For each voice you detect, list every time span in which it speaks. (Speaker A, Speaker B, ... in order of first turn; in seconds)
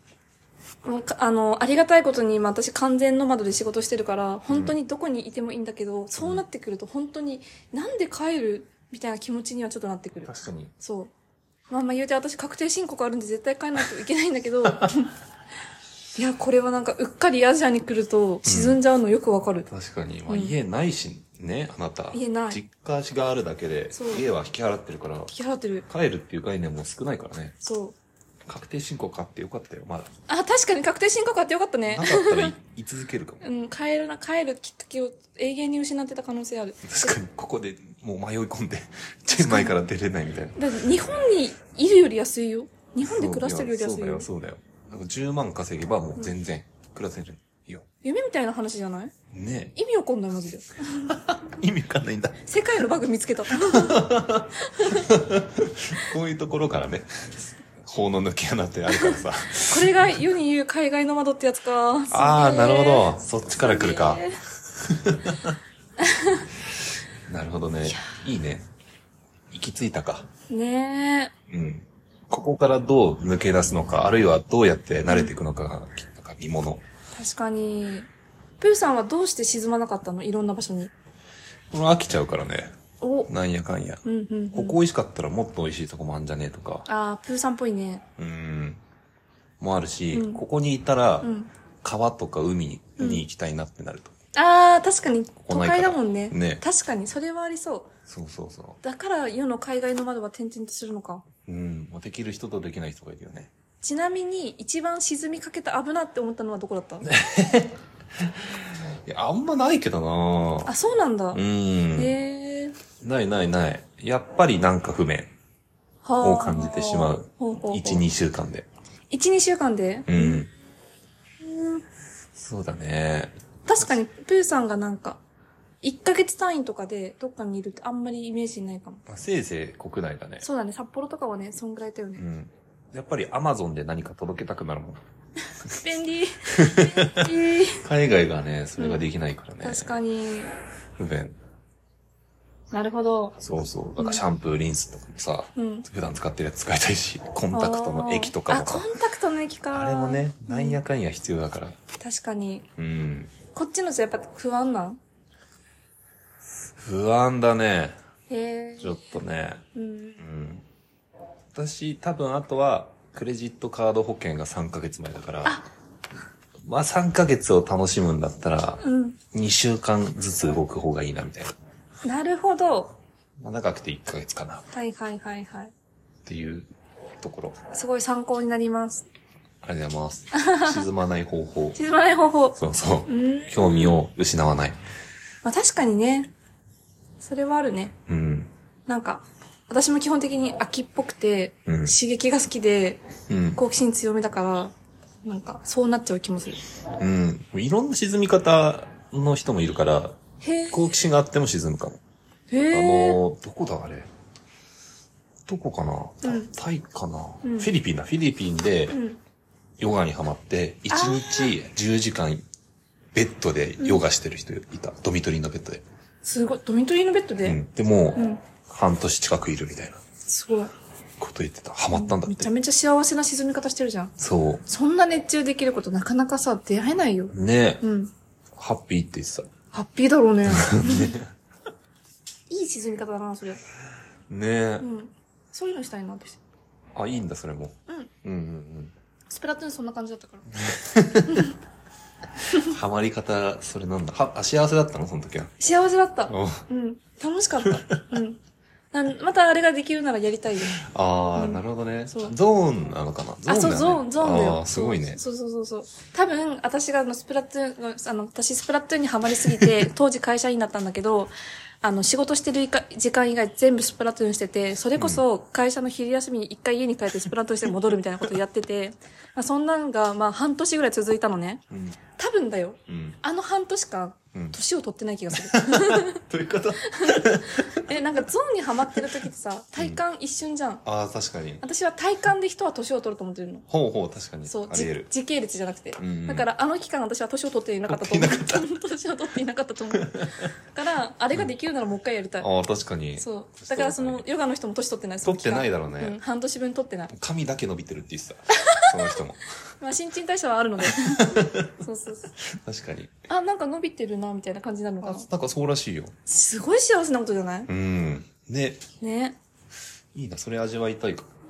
Speaker A: 0.8-11.1, 11.7-15.1, 16.1-19.7, 20.3-20.5, 22.1-22.6, 23.9-24.2, 25.3-25.9, 27.6-27.9, 30.3-32.5, 33.4-37.2, 39.3-39.8, 40.5-44.3, 48.0-49.1, 49.7-51.1, 52.4-55.1, 58.9-64.4, 66.0-66.5, 70.5-71.3, 75.1-75.3, 77.2-78.1, 78.6-80.9, 83.0-83.3, 84.0-84.8, 86.8-88.0, 90.1-90.4, 91.2-91.5, 93.0-93.2, 94.3-97.9, 98.8-101.2, 103.8-107.1, 110.6-111.4, 112.0-112.8, 116.0-118.0, 119.1-120.4, 121.4-121.8, 123.7-125.2, 125.8-129.0, 130.4-132.2, 135.6-137.8, 138.8-139.0, 139.6-140.5, 142.7-143.4, 144.0-144.2, 145.6-145.8, 147.5-150.8, 152.0-152.7, 153.5-155.0, 158.3-159.0, 159.7-160.2, 168.8-169.2, 172.0-173.0, 174.7-175.7, 177.7-179.1, 180.3-180.8, 181.7-183.9, 185.4-186.3, 187.2-187.9, 188.9-193.0, 193.6-196.6, 200.4-200.9, 202.5-203.2, 206.2-206.5, 207.4-207.7, 208.9-209.2, 210.9-211.5, 216.2-217.6, 218.1-218.4, 220.3-220.7, 221.9-224.1, 224.7-228.1, 229.7-231.2, 232.5-233.6, 234.8-236.4, 239.3-240.4, 241.0-241.5, 245.6-248.4, 248.9-250.8, 251.3-252.3, 253.4-271.6, 272.2-276.2, 276.8-280.8, 281.6-283.6, 284.4-292.5, 293.2-297.1, 298.7-298.9, 299.8-302.3, 303.3-305.3, 306.3-307.7, 309.0-309.4
Speaker B: 6.2-6.4, 10.2-10.7, 18.4-18.8, 19.6-25.3, 25.9-27.6, 28.5-30.1, 31.9-33.4, 36.8-40.6, 43.0-47.9, 49.3-49.7, 51.0-52.4, 53.6-60.1, 62.1-64.2, 64.8-65.5, 67.3-68.7, 69.5-70.3, 71.5-76.8, 81.7-82.7, 83.3-86.8, 88.2-88.8, 89.6-91.3, 91.8-94.1, 95.4-96.6, 98.1-98.8, 101.5-103.5, 107.0-108.5, 109.0-110.7, 111.3-112.1, 113.0-115.3, 116.2-118.7, 120.1-120.5, 122.3-123.3, 129.1-130.4, 132.2-135.0, 136.6-139.9, 141.0-141.3, 143.4-148.9, 149.7-151.8, 152.8-153.3, 156.8-157.9, 158.8-159.6, 160.2-160.6, 161.5-165.6, 166.7-171.5, 173.4-174.7, 176.2-177.6, 179.6-181.8, 182.6-184.8, 188.1-188.5, 191.7-191.9, 193.3-193.6, 197.0-200.2, 200.7-202.0, 202.7-204.1, 205.5-209.0, 209.8-212.4, 213.1-215.8, 217.4-220.0, 221.2-222.5, 224.2-224.7, 227.3-227.8, 228.6-229.5, 230.5-231.3, 234.3-234.8, 236.9-238.9, 240.5-241.5, 242.5-245.5, 246.3-246.7, 247.6-248.0, 250.8-255.2, 264.9-265.2, 271.7-272.0, 272.9-273.2, 275.4-278.0, 280.8-281.6, 283.7-285.1, 286.0-286.4, 287.9-288.7, 289.9-290.4, 292.4-294.2, 295.2-296.2, 297.1-299.5, 300.8-301.7, 302.4-303.1, 305.0-306.1, 307.7-308.8, 310.1-311.3